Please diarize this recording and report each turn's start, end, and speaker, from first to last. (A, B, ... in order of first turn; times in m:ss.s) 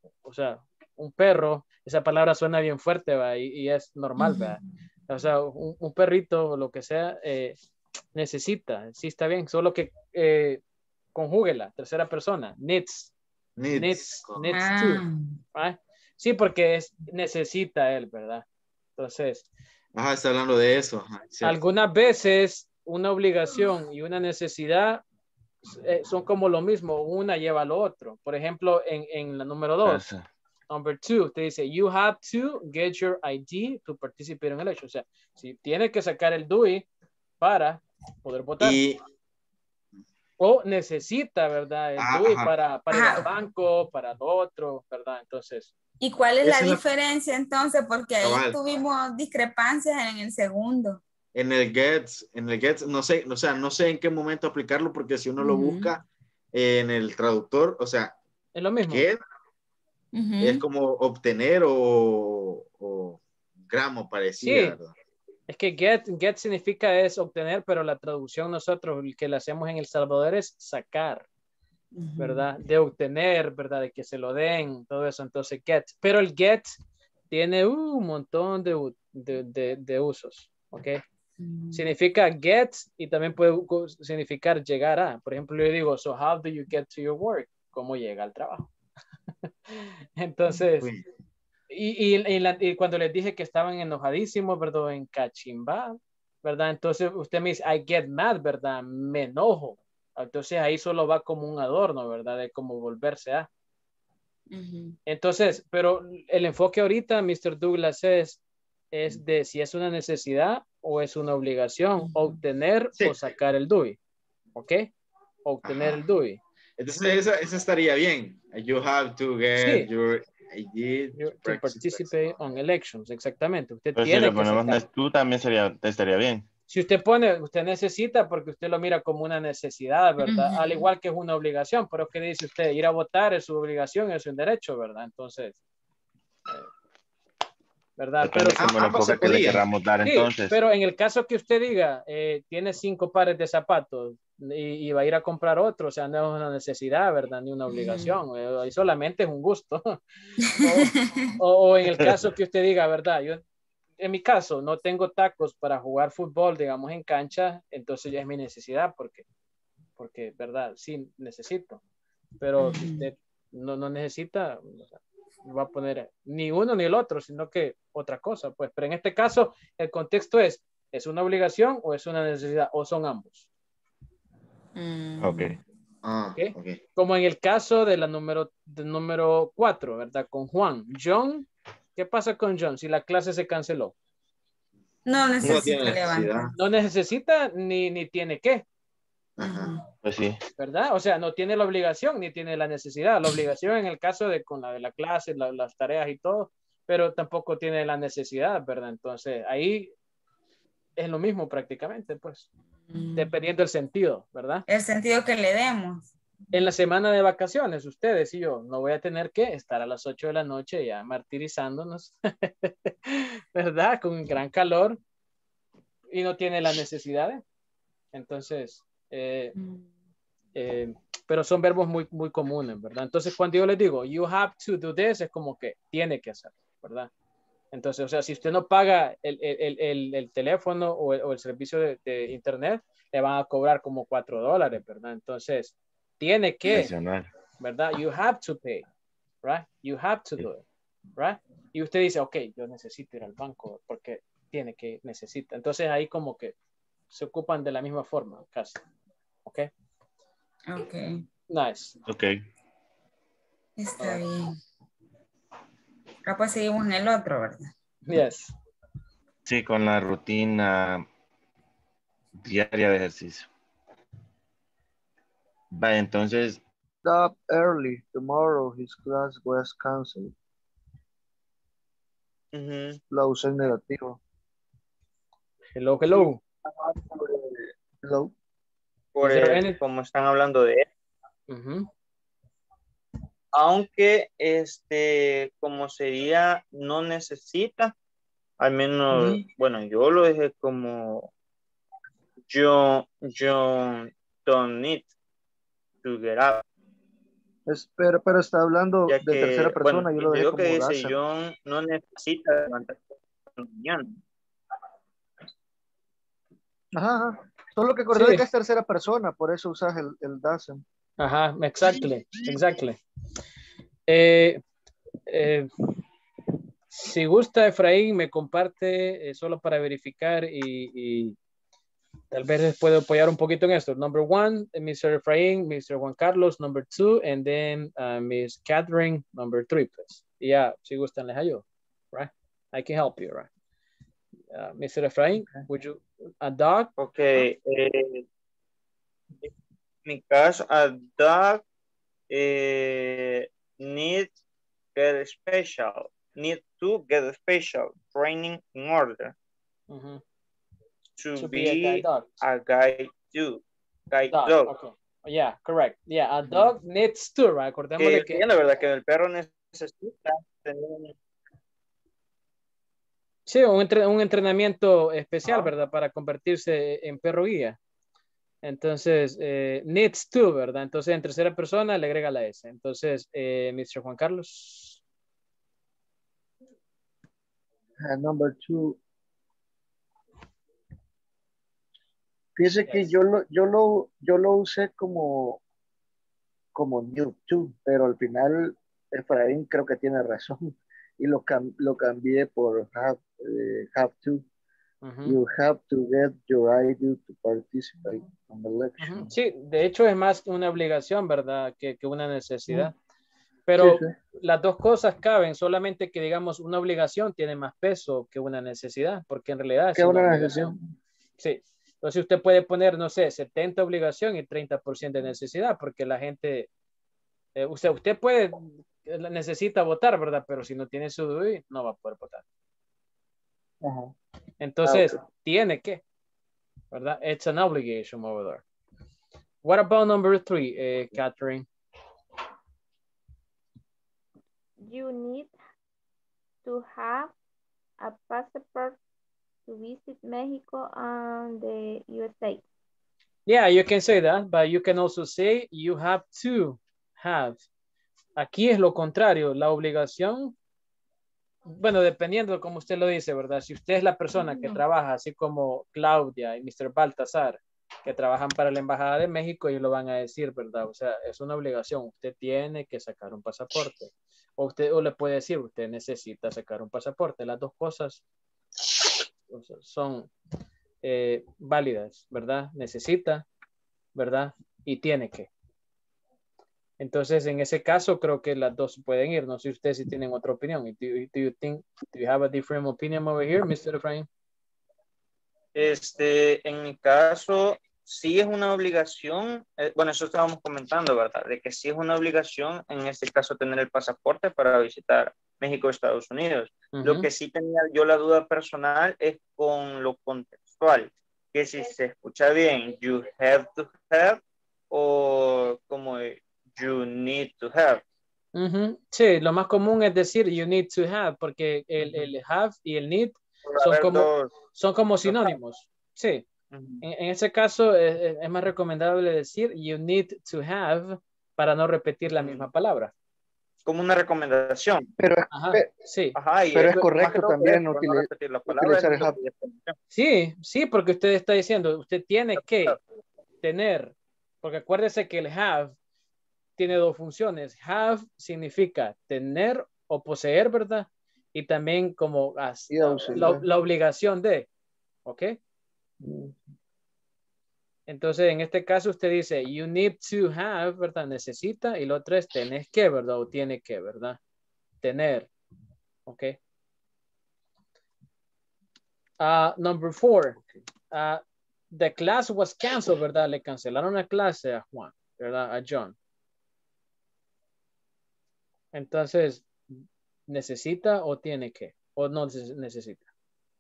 0:00.2-0:07.6 A
0:04.2-0:04.6 B
0:08.1-0:10.6 A
0:11.1-0:13.1 A
0:13.6-0:14.6 C
0:13.7-0:18.4 A
0:14.5-0:15.3 B
0:19.0-0:19.4 A
0:20.0-0:21.6 C
0:21.4-0:25.0 A
0:25.6-0:30.0 A
0:30.7-0:36.8 A
0:37.4-0:38.8 A
0:38.6-0:39.0 C
0:40.4-0:45.7 A
0:42.0-0:42.5 C
0:42.9-0:43.3 B
0:46.0-0:51.0 B
0:46.4-0:46.8 C
0:48.2-0:48.6 C
0:51.3-0:58.2 C
0:55.4-0:55.9 B
0:58.5-0:59.1 A
0:58.9-0:59.2 C
1:00.1-1:00.6 B
1:00.4-1:04.9 C
1:04.4-1:04.8 A
1:05.5-1:11.2 A
1:12.0-1:12.4 B
1:12.2-1:16.8 A
1:17.3-1:21.0 A
1:21.4-1:21.8 B
1:21.7-1:28.7 A
1:29.7-1:30.9 A
1:31.7-1:43.5 A
1:44.5-1:44.9 B
1:45.0-1:48.4 A
1:48.9-1:54.0 A
1:54.5-1:54.9 A
1:55.4-1:56.4 A
1:55.7-1:56.0 C
1:56.8-2:02.1 C
1:59.6-1:59.9 A
2:01.2-2:04.8 A
2:04.0-2:06.4 D
2:06.7-2:15.6 A
2:10.2-2:10.8 B
2:18.0-2:30.0 A
2:18.2-2:20.5 D
2:18.5-2:19.7 C
2:27.7-2:28.1 B
2:30.5-2:31.2 B
2:30.5-2:33.4 A
2:34.0-2:39.2 A
2:40.0-2:41.8 A
2:42.4-2:53.5 A
2:42.6-2:43.1 B
2:54.8-2:55.6 B
2:56.0-2:56.8 C
2:56.3-3:03.9 A
3:05.0-3:06.5 B
3:05.4-3:06.5 C
3:06.5-3:08.6 A
3:09.4-3:09.7 C
3:09.4-3:09.8 B
3:10.0-3:10.4 D
3:10.6-3:19.9 A
3:21.0-3:22.5 A
3:22.9-3:23.3 B
3:23.2-3:24.6 A
3:24.7-3:26.1 B
3:26.5-3:35.0 A
3:36.1-3:37.4 A
3:38.1-3:39.5 A
3:39.6-3:39.8 B
3:40.5-3:47.1 A
3:47.7-3:57.0 A
3:56.7-3:57.3 D
3:57.6-3:58.8 A
3:59.4-4:00.6 A
4:01.2-4:06.5 A
4:07.1-4:08.8 A
4:10.7-4:11.2 B
4:11.5-4:12.0 A
4:13.8-4:14.6 B
4:16.2-4:17.7 B
4:18.0-4:18.5 A
4:19.4-4:21.0 D
4:22.4-4:23.5 D
4:25.7-4:26.6 D
4:27.0-4:30.3 E
4:32.5-4:33.0 F
4:33.1-4:34.2 E
4:35.7-4:36.4 A
4:36.2-4:38.3 E
4:39.1-4:40.8 F
4:39.2-4:39.8 A
4:41.5-4:41.9 A
4:43.5-4:47.9 F
4:48.6-4:51.3 F
4:49.1-4:49.4 A
4:52.5-4:55.1 F
4:56.0-4:56.6 F
4:57.7-5:01.1 E
4:59.1-5:03.0 F
5:03.6-5:04.2 F
5:07.0-5:10.8 E
5:08.1-5:08.4 A
5:11.2-5:13.0 A
5:14.1-5:14.6 A
5:15.3-5:15.7 A
5:16.9-5:21.4 A
5:22.3-5:33.5 A
5:34.5-5:36.9 A
5:37.0-5:38.2 F
5:40.0-5:41.6 F
5:42.3-5:44.3 F
5:45.0-5:49.3 F
5:49.9-5:50.2 A
5:51.2-5:54.7 F
5:51.4-5:52.4 A
5:54.3-5:58.4 A
5:56.5-5:56.7 F
5:58.0-6:01.1 F
6:03.4-6:07.8 A
6:05.4-6:05.7 F
6:08.6-6:15.0 A
6:18.0-6:19.0 E
6:22.6-6:25.6 E
6:22.8-6:23.1 A
6:26.7-6:34.4 E
6:35.0-6:35.4 A
6:35.2-6:39.3 E
6:39.0-6:42.9 A
6:43.7-6:50.7 A
6:43.8-6:44.1 E
6:49.9-6:50.8 E
6:51.4-6:56.7 A
6:57.6-7:02.4 A
7:03.8-7:04.1 E
7:04.6-7:06.0 A
7:04.8-7:05.2 E
7:06.9-7:08.6 A
7:09.6-7:11.6 A
7:14.8-7:15.5 G
7:16.6-7:17.3 G
7:18.0-7:19.0 G
7:19.7-7:22.6 G
7:23.4-7:27.6 A
7:28.4-7:30.5 A
7:31.7-7:48.2 A
7:49.5-7:50.3 A
7:51.0-7:53.4 A
7:54.1-7:55.5 A
7:57.0-8:04.3 A
8:05.7-8:24.4 F
8:16.9-8:17.3 A
8:24.9-8:28.0 F
8:28.5-8:36.4 A
8:33.7-8:34.5 F
8:35.3-8:35.5 F
8:36.7-8:37.0 F
8:37.0-8:43.1 A
8:42.3-8:42.7 F
8:43.8-8:45.1 F
8:45.2-8:45.9 E
8:45.5-8:46.4 A
8:46.3-8:49.9 F
8:46.7-8:49.3 E
8:50.1-8:53.0 A
8:53.6-8:55.9 A
8:56.8-9:04.7 A
9:02.9-9:03.6 E
9:05.2-9:05.6 A
9:06.2-9:06.5 E
9:08.1-9:14.4 A
9:15.0-9:15.5 A
9:16.3-9:16.6 A
9:19.4-9:20.6 A
9:21.1-9:21.4 A
9:21.9-9:26.1 A
9:28.9-9:29.7 A
9:30.5-9:33.2 A